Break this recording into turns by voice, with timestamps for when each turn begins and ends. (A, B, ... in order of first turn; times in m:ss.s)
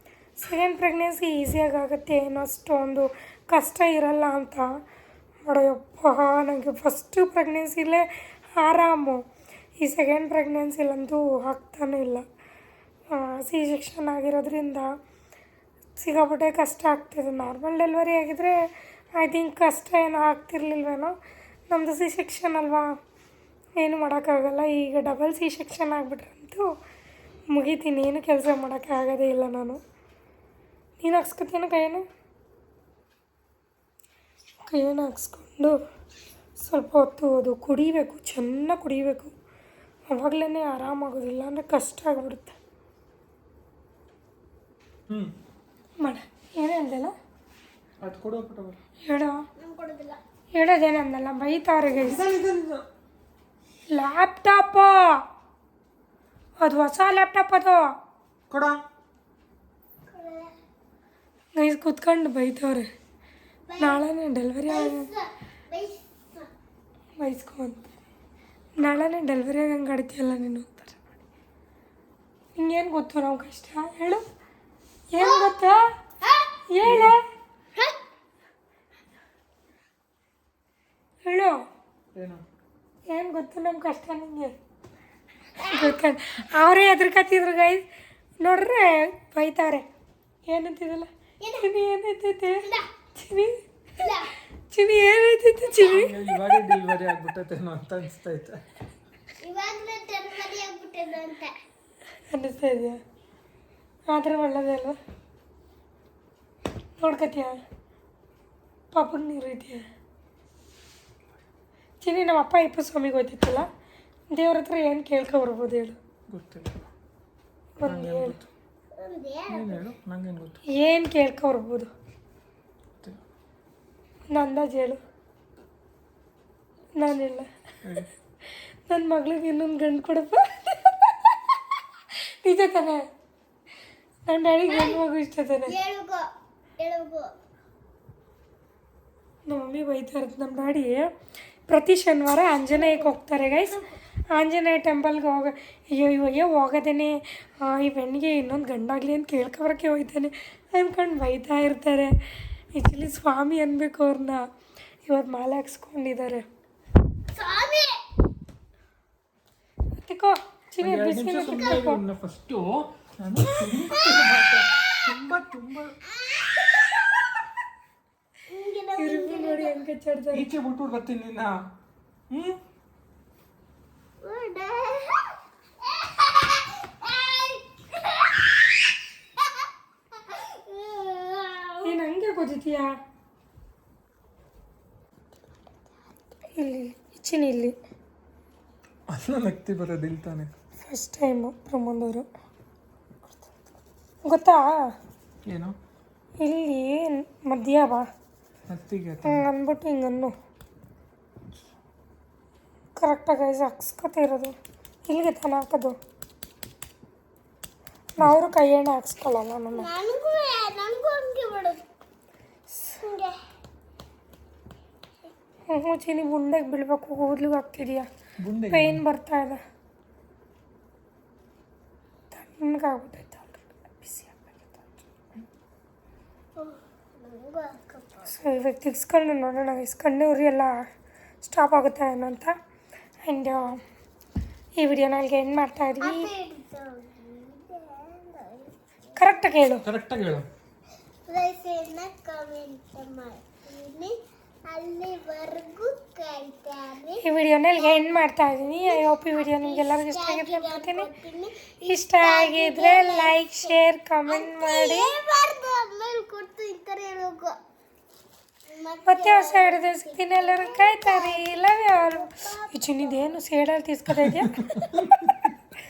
0:00.4-0:04.7 A
0:05.4-0:09.2 A
0:09.8-0:12.2 A
0:13.1-0:14.9 A
0:16.0-0:18.6 A
0:19.2-0:21.1 A
0:21.7-0:22.9 A
0:23.8-0:26.6 A
0:27.5-0:29.8 A
0:31.0-0:32.0 A
0:34.6-0:35.8 A
0:36.6-0:39.3 A
0:40.1-0:42.6 A
0:46.0-0:47.1 A
0:48.0-0:48.8 B
0:49.0-0:49.4 A
0:49.6-0:50.2 C
0:50.5-0:52.3 A
0:52.1-0:52.8 B
0:53.9-0:55.2 A
0:56.6-0:57.9 A
0:58.5-0:58.8 B
1:00.1-1:00.5 C
1:01.5-1:02.9 A
1:03.7-1:04.0 C
1:03.8-1:05.1 A
1:04.7-1:06.5 C
1:07.2-1:07.8 A
1:08.8-1:11.0 A
1:12.5-1:14.2 A
1:15.1-1:15.9 A
1:15.2-1:15.5 C
1:16.2-1:16.5 C
1:16.7-1:17.2 A
1:16.8-1:17.1 B
1:21.2-1:21.6 A
1:22.1-1:22.4 B
1:23.1-1:24.5 A
1:25.6-1:26.0 C
1:25.7-1:27.8 A
1:28.4-1:29.8 A
1:30.5-1:31.1 A
1:31.4-1:31.7 C
1:31.6-1:33.5 A
1:32.6-1:32.9 C
1:34.0-1:34.3 C
1:34.7-1:36.1 A
1:35.8-1:38.6 B
1:39.4-1:41.5 C
1:42.3-1:43.0 A
1:44.1-1:45.0 A
1:47.0-1:47.6 A
1:48.9-1:49.8 A
1:52.0-1:53.6 A
1:54.3-1:56.0 A
1:56.3-1:56.7 B
1:57.8-1:58.4 A
1:57.8-1:58.5 B
1:59.0-1:59.8 C
1:59.5-2:00.6 B
2:00.7-2:01.9 A
2:04.3-2:05.0 A
2:07.0-2:07.5 A
2:07.8-2:08.1 B
2:08.9-2:11.6 A
2:12.4-2:13.1 A
2:14.2-2:15.8 A
2:14.7-2:15.0 C
2:15.6-2:16.2 C
2:16.8-2:17.3 C
2:19.5-2:21.1 A
2:21.7-2:23.8 A
2:22.7-2:23.9 C
2:24.3-2:32.2 A
2:32.7-2:34.5 A
2:35.0-2:36.4 A
2:37.3-2:38.0 C
2:40.0-2:42.0 A
2:40.8-2:46.0 B
2:43.9-2:44.2 C
2:46.2-2:47.0 C
2:48.5-2:49.8 C
2:49.0-2:50.5 A
2:50.3-2:51.5 B
2:52.3-2:52.6 B
2:54.2-2:58.6 C
2:59.4-2:59.7 C
3:00.2-3:01.9 C
3:01.8-3:02.9 A
3:06.6-3:07.7 A
3:09.1-3:10.5 B
3:10.8-3:12.3 A
3:14.2-3:14.7 A
3:15.4-3:15.8 B
3:16.4-3:18.1 A
3:18.7-3:19.4 B
3:19.2-3:20.3 A
3:23.0-3:24.5 A
3:25.1-3:26.0 A
3:28.2-3:29.9 A
3:29.7-3:31.8 C
3:33.0-3:33.3 C
3:35.7-3:38.1 A
3:38.4-3:39.0 B
3:38.7-3:39.6 A
3:42.3-3:44.9 A
3:46.6-3:48.2 C
3:48.2-3:50.8 A
3:51.4-3:52.5 A
3:53.2-3:53.8 A
3:54.8-3:56.3 A
3:56.0-3:59.3 C
3:59.2-3:59.8 A
3:59.8-4:00.4 B
4:01.3-4:04.1 C
4:04.7-4:07.2 C
4:07.2-4:11.1 A
4:07.8-4:08.1 C
4:08.6-4:17.5 C
4:11.8-4:15.1 A
4:18.7-4:23.3 C
4:19.0-4:25.1 A
4:24.2-4:25.5 B